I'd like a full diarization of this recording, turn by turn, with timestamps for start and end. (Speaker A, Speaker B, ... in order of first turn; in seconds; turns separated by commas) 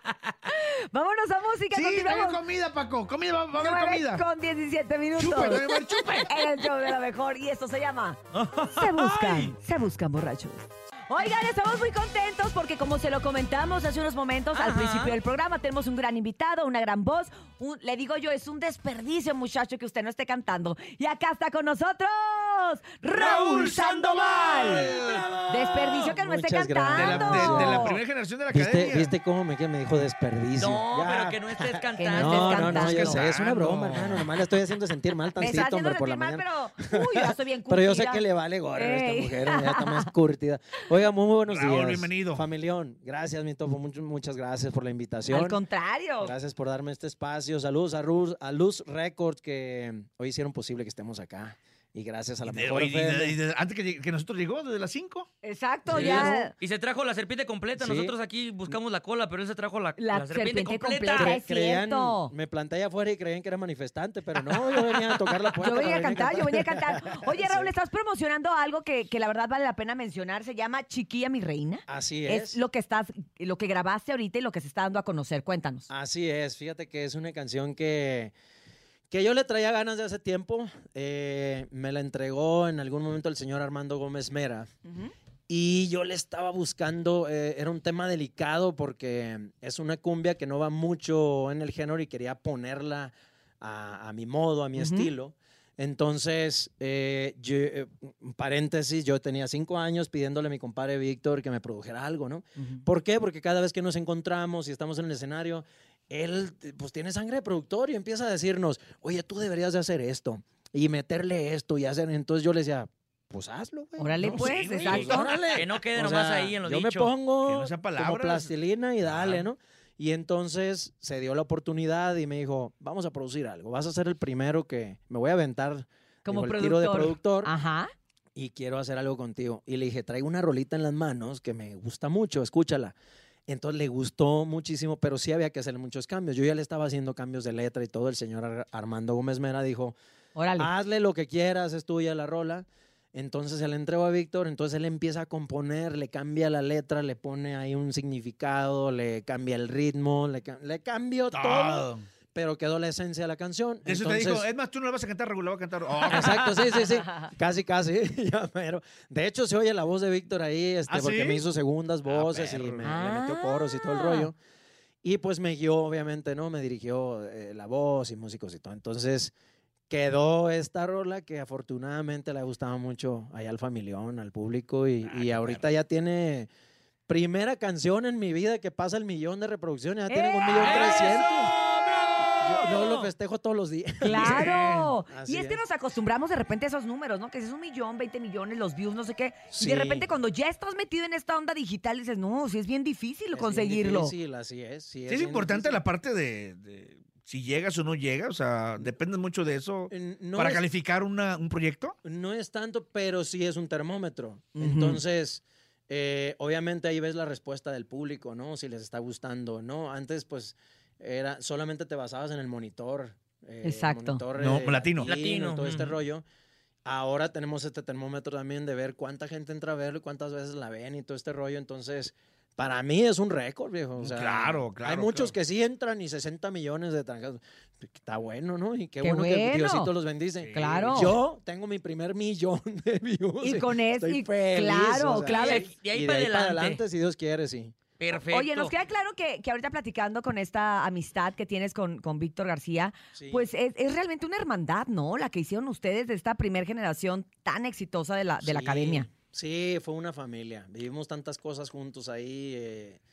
Speaker A: 0.5-2.4, Speaker B: 1.7-4.2, Speaker A: 3.6-8.2, Speaker B: 5.2-6.3, Speaker C: 8.3-9.5, Speaker A: 8.7-24.9, Speaker C: 14.5-15.2, Speaker B: 23.1-25.4, Speaker C: 24.7-26.1, Speaker A: 25.5-28.0, Speaker D: 26.2-27.8, Speaker B: 26.9-29.2, Speaker D: 28.5-31.6, Speaker C: 30.6-33.1, Speaker A: 32.0-33.2, Speaker D: 32.1-45.6, Speaker B: 32.6-34.3, Speaker A: 35.4-38.2, Speaker A: 38.8-40.1, Speaker B: 41.5-42.5, Speaker A: 45.3-46.3, Speaker D: 46.2-53.3, Speaker B: 52.4-55.3, Speaker A: 55.4-56.5, Speaker C: 55.9-61.4, Speaker D: 55.9-56.2, Speaker D: 57.8-58.1, Speaker A: 60.0-62.3, Speaker D: 61.2-67.7, Speaker A: 65.6-75.9, Speaker D: 71.9-72.6, Speaker D: 75.9-78.3, Speaker D: 79.1-84.7, Speaker A: 84.9-85.1, Speaker D: 85.5-127.5, Speaker A: 94.8-95.1, Speaker A: 114.0-115.3, Speaker B: 114.2-115.6, Speaker C: 115.5-117.1, Speaker B: 117.4-119.5, Speaker A: 126.3-127.9, Speaker D: 128.4-132.9, Speaker D: 133.5-139.9, Speaker A: 140.4-140.7, Speaker D: 140.6-154.4, Speaker B: 151.3-152.1, Speaker B: 153.8-156.8, Speaker D: 156.1-164.3, Speaker B: 160.9-161.5, Speaker B: 162.1-163.0, Speaker A: 162.8-164.3, Speaker D: 165.0-169.3, Speaker D: 169.9-176.5, Speaker B: 175.0-175.8, Speaker D: 177.1-181.5, Speaker A: 180.1-181.1, Speaker C: 180.5-183.1, Speaker B: 180.6-181.0, Speaker D: 182.4-184.5, Speaker A: 184.0-194.1, Speaker B: 184.2-184.9, Speaker D: 185.1-185.6, Speaker D: 189.5-190.1, Speaker D: 193.3-195.8, Speaker B: 195.1-202.0, Speaker D: 199.9-200.6, Speaker D: 202.0-216.2, Speaker A: 204.6-205.0, Speaker A: 213.6-214.2, Speaker B: 214.3-215.2, Speaker C: 215.1-215.9, Speaker D: 216.8-237.8, Speaker B: 224.0-225.3, Speaker A: 229.0-229.9, Speaker B: 230.4-231.1, Speaker A: 230.5-231.2, Speaker A: 233.4-235.7, Speaker C: 235.3-236.8, Speaker C: 238.0-238.7, Speaker A: 238.3-249.1, Speaker D: 243.2-243.5, Speaker D: 248.4-253.0